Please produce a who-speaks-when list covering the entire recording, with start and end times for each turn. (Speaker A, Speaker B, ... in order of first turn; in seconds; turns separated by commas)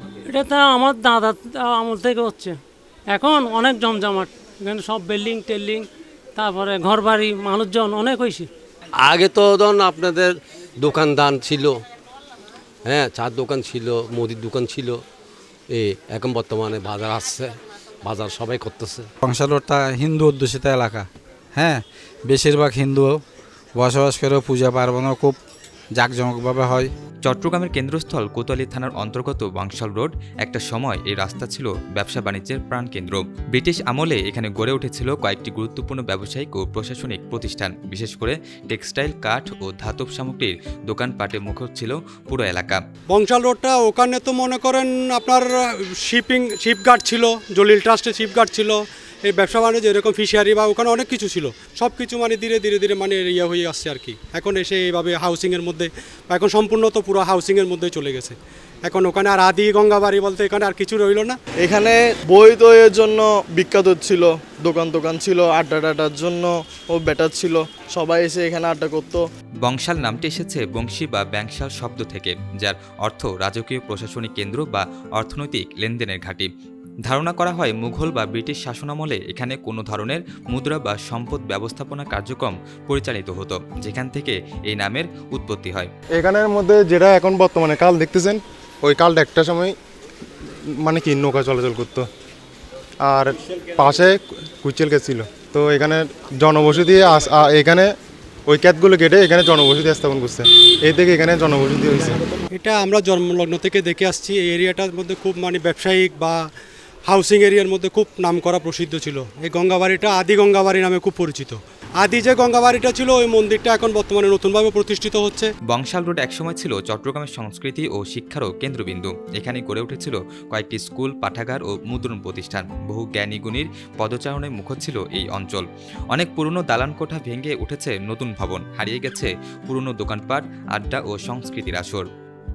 Speaker A: 0.3-2.5, Speaker A: 3.1-5.8, Speaker A: 6.4-8.5, Speaker B: 9.0-11.8, Speaker B: 12.8-15.0, Speaker B: 15.7-19.1, Speaker C: 19.2-23.2, Speaker C: 23.8-25.4, Speaker C: 25.9-26.9, Speaker D: 27.2-42.8, Speaker E: 43.1-61.4, Speaker F: 61.6-69.2, Speaker D: 69.7-76.5, Speaker D: 77.1-85.9, Speaker G: 86.2-89.8, Speaker G: 90.8-92.1, Speaker G: 93.0-97.9, Speaker G: 98.5-102.2, Speaker E: 102.5-106.4, Speaker E: 107.1-115.5, Speaker D: 115.7-132.1